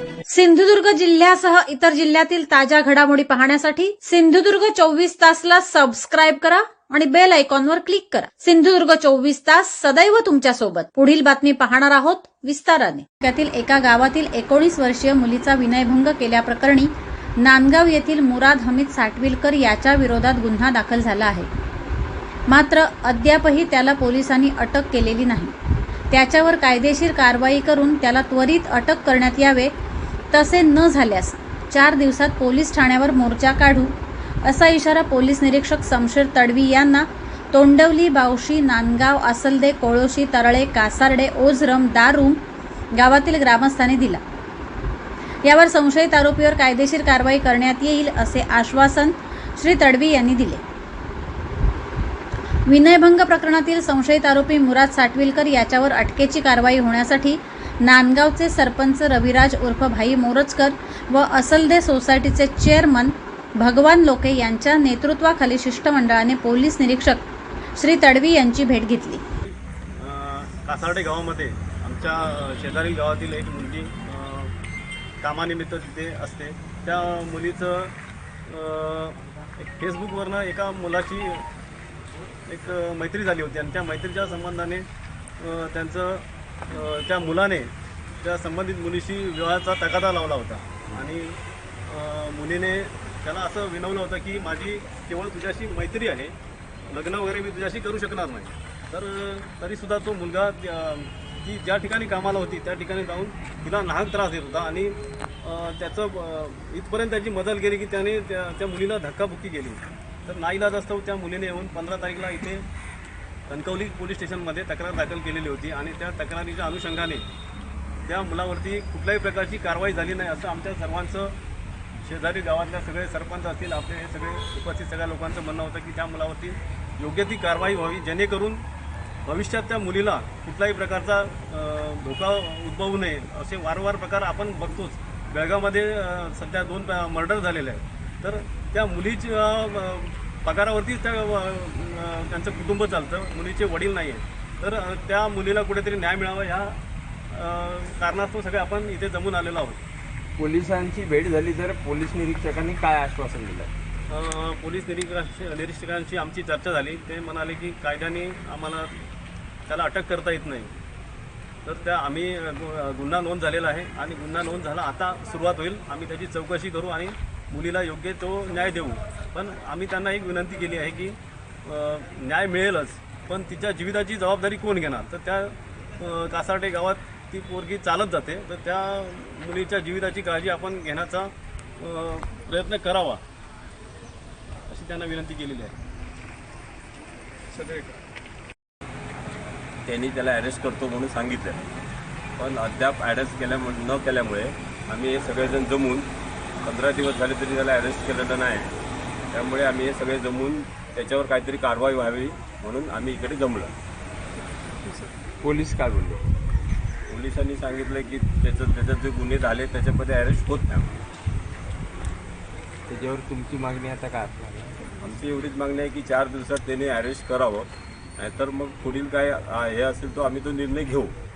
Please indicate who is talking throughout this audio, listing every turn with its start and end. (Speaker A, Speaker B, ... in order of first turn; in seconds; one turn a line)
Speaker A: 0.3-21.5
Speaker A: 22.5-25.6
Speaker A: 26.1-29.7
Speaker A: 30.3-44.2
Speaker A: 45.4-50.6
Speaker A: 52.6-69.2
Speaker B: 70.0-74.5
Speaker B: 75.2-77.9
Speaker B: 78.5-81.5
Speaker B: 82.5-84.9
Speaker B: 85.4-96.4
Speaker B: 96.9-112.7
Speaker B: 113.5-117.3
Speaker B: 118.1-121.4
Speaker B: 122.0-128.6
Speaker B: 129.3-146.8
Speaker B: 147.3-149.8
Speaker C: 150.4-153.7
Speaker B: 154.1-159.1
Speaker B: 159.7-160.7
Speaker B: 161.7-183.2
Speaker B: 184.7-185.8
Speaker B: 187.6-187.8
Speaker D: 189.9-191.7
Speaker D: 192.4-196.1
Speaker D: 196.6-198.7
Speaker D: 199.3-203.8
Speaker C: 205.4-206.2
Speaker D: 207.1-211.1
Speaker C: 212.9-214.9
Speaker D: 214.9-221.1